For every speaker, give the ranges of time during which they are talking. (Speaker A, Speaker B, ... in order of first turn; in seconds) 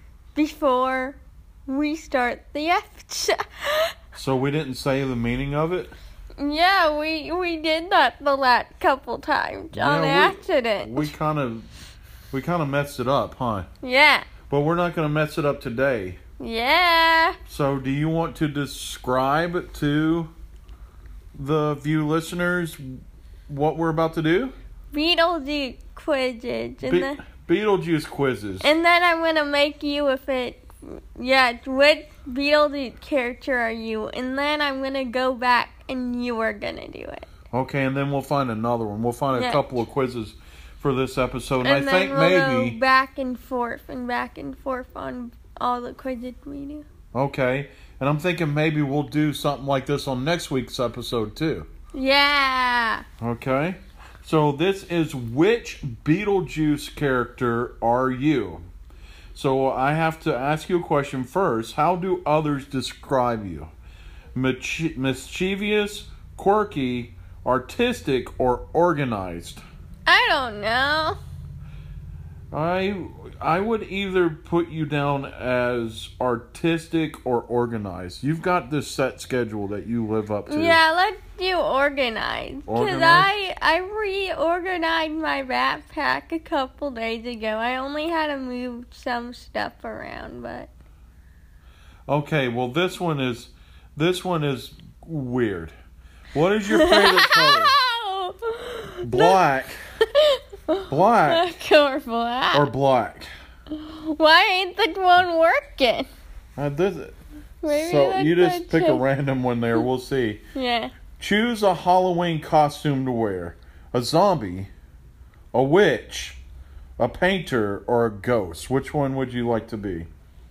Speaker A: 0.3-3.9, 6.4-11.1, 13.8-14.3, 16.4-17.4, 24.9-27.2, 28.6-37.3, 39.3-39.8, 41.6-46.9, 51.9-53.0, 70.1-71.2, 80.5-90.7, 96.7-99.4, 100.1-102.7, 103.7-106.1, 107.6-109.0, 110.5-110.9
Speaker B: 4.2-5.9, 9.7-11.7, 12.3-13.7, 14.5-16.2, 17.5-20.3, 21.4-22.8, 23.5-24.5, 26.8-28.7, 37.5-42.8, 47.1-51.7, 53.2-58.6, 59.3-63.7, 64.3-69.6, 72.5-80.8, 82.7-83.3, 92.1-95.7, 96.3-97.8, 99.0-99.8, 100.9-101.5, 102.5-103.3, 106.6-110.4, 111.2-114.7, 115.5-116.4, 117.0-120.1